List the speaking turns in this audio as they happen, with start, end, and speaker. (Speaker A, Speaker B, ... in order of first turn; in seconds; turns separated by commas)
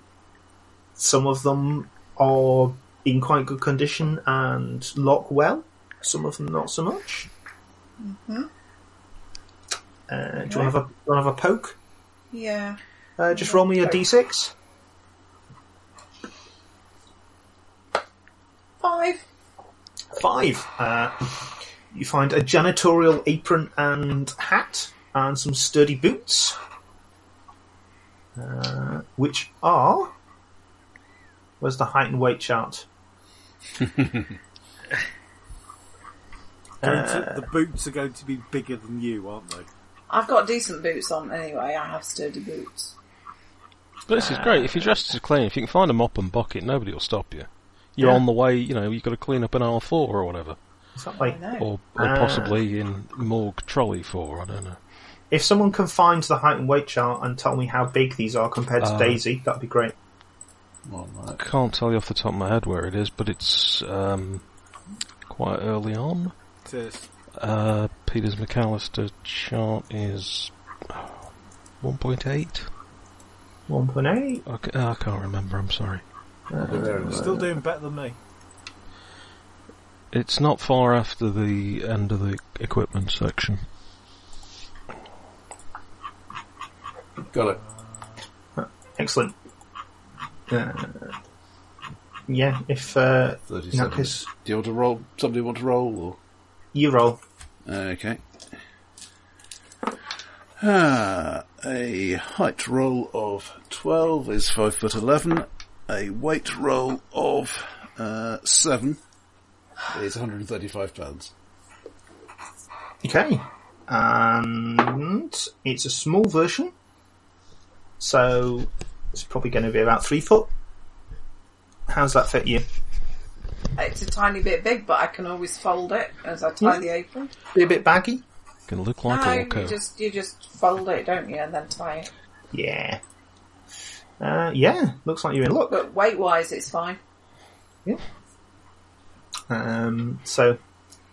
Speaker A: 1.0-7.3, Speaker B: 8.0-8.5, Speaker A: 10.1-11.8, Speaker B: 10.5-10.7, Speaker B: 12.3-12.8, Speaker A: 13.2-14.5, Speaker B: 13.3-14.0, Speaker B: 18.8-19.2, Speaker A: 20.1-26.6, Speaker A: 28.4-30.1, Speaker A: 31.6-32.9, Speaker A: 36.8-37.4, Speaker C: 36.8-39.7, Speaker B: 40.1-42.9, Speaker D: 44.1-50.6, Speaker A: 44.1-45.1, Speaker A: 48.0-48.2, Speaker A: 51.0-51.4, Speaker B: 51.2-51.7, Speaker D: 51.5-54.8, Speaker A: 51.9-52.6, Speaker A: 55.3-59.9, Speaker D: 58.8-59.2, Speaker E: 60.9-61.4, Speaker D: 61.3-64.4, Speaker D: 65.3-66.3, Speaker C: 66.6-67.1, Speaker D: 67.4-71.2, Speaker D: 71.8-72.7, Speaker A: 73.7-74.4, Speaker D: 74.5-76.0, Speaker A: 76.5-77.5, Speaker E: 76.6-77.2, Speaker C: 76.9-78.2, Speaker D: 80.1-83.6, Speaker E: 87.3-87.6, Speaker A: 88.5-89.3, Speaker A: 90.5-91.1, Speaker A: 92.3-94.3, Speaker E: 93.5-96.2, Speaker A: 96.7-97.2, Speaker E: 97.6-98.2, Speaker E: 100.6-109.0, Speaker E: 109.9-111.3, Speaker A: 113.0-116.7, Speaker A: 118.0-120.5, Speaker A: 121.9-122.6, Speaker B: 123.8-127.3, Speaker A: 127.5-128.2, Speaker D: 128.7-129.8, Speaker B: 129.1-132.1, Speaker A: 132.5-133.0, Speaker A: 134.2-135.8, Speaker B: 135.7-137.0, Speaker A: 139.5-140.6